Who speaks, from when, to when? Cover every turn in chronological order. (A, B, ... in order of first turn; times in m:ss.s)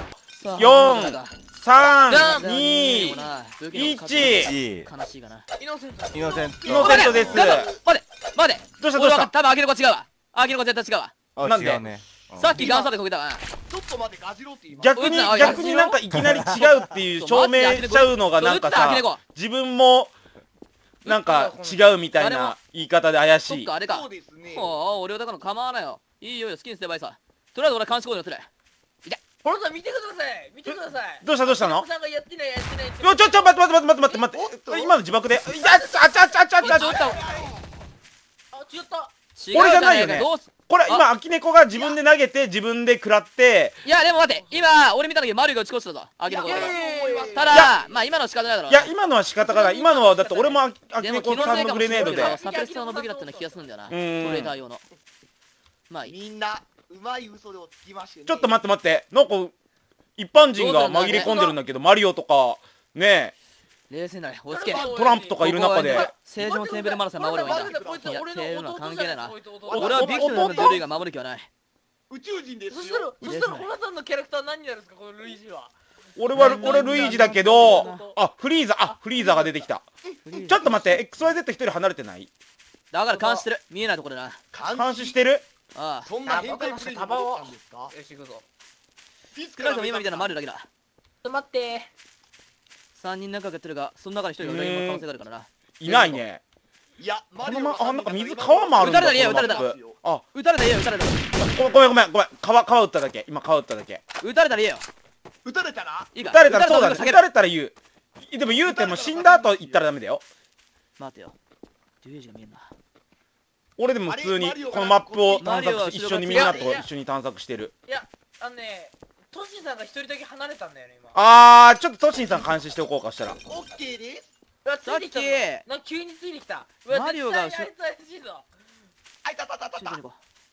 0:00.4-0:01.3 A
0:00.6-0:04.5 B
0:02.1-0:03.1 C
0:02.1-0:05.4 A
0:04.2-0:04.9 D
0:05.6-0:06.6 C
0:06.1-0:07.5 D
0:06.6-0:07.8 E
0:06.6-0:07.7 B
0:06.8-0:11.1 A
0:08.8-0:09.3 B
0:11.3-0:12.6 D
0:11.4-0:11.8 B
0:12.4-0:13.4 A
0:12.6-0:12.9 E
0:13.7-0:15.6 E
0:14.8-0:20.1 B
0:15.0-0:16.0 A
0:16.1-0:16.9 D
0:17.2-0:19.2 A
0:21.0-0:23.7 B
0:21.0-0:21.8 C
0:22.2-0:22.6 A
0:23.5-0:28.5 A
0:23.8-0:24.8 E
0:29.4-0:34.2 C
0:30.7-0:31.9 B
0:33.0-0:37.1 B
0:34.3-0:37.6 E
0:36.6-0:37.2 A
0:38.5-0:39.1 C
0:39.4-0:41.0 A
0:39.5-0:43.7 B
0:43.8-0:46.8 A
0:46.3-0:47.7 E
0:46.4-0:47.7 C
0:47.3-0:48.9 A
0:48.7-0:52.4 B
0:49.4-0:50.6 C
0:51.0-0:54.8 A
0:51.2-0:53.7 C
0:53.9-0:54.5 B
0:56.0-0:58.5 E
0:58.2-0:59.5 B
1:00.2-1:03.3 B
1:00.6-1:01.5 A
1:00.8-1:01.6 C
1:03.9-1:11.5 A
1:04.5-1:10.8 C
1:04.8-1:06.1 B
1:07.4-1:08.2 E
1:09.7-1:10.7 E
1:09.7-1:10.8 B
1:12.1-1:13.4 E
1:12.7-1:15.7 C
1:13.2-1:13.7 A
1:16.2-1:19.8 B
1:16.3-1:18.1 A
1:16.3-1:18.2 C
1:20.2-1:21.3 A
1:20.4-1:22.3 B
1:22.9-1:24.4 A
1:23.1-1:23.5 C
1:24.5-1:25.2 E
1:24.7-1:25.4 B
1:25.7-1:26.1 A
1:26.0-1:27.9 E
1:26.3-1:28.4 C
1:29.3-1:30.4 E
1:29.5-1:30.7 A
1:31.2-1:31.9 C
1:32.9-1:36.2 A
1:34.4-1:35.0 B
1:35.8-1:36.4 B
1:37.0-1:40.0 E
1:37.4-1:40.2 B
1:38.8-1:39.7 A
1:40.3-1:41.2 A
1:41.4-1:44.0 B
1:44.2-1:44.8 A
1:45.4-1:46.1 E
1:46.1-1:47.2 A
1:46.2-1:50.2 B
1:48.6-1:49.8 E
1:51.0-1:51.3 A
1:52.0-1:52.7 A
1:53.8-1:57.7 B
1:54.0-1:55.5 E
1:55.4-1:56.8 A
1:56.3-1:56.8 C
1:56.4-1:56.7 E
1:57.9-2:01.2 C
2:01.1-2:03.4 B
2:03.4-2:04.3 E
2:04.6-2:08.5 C
2:04.8-2:05.6 A
2:06.9-2:07.7 A
2:09.2-2:10.0 E
2:09.8-2:10.2 A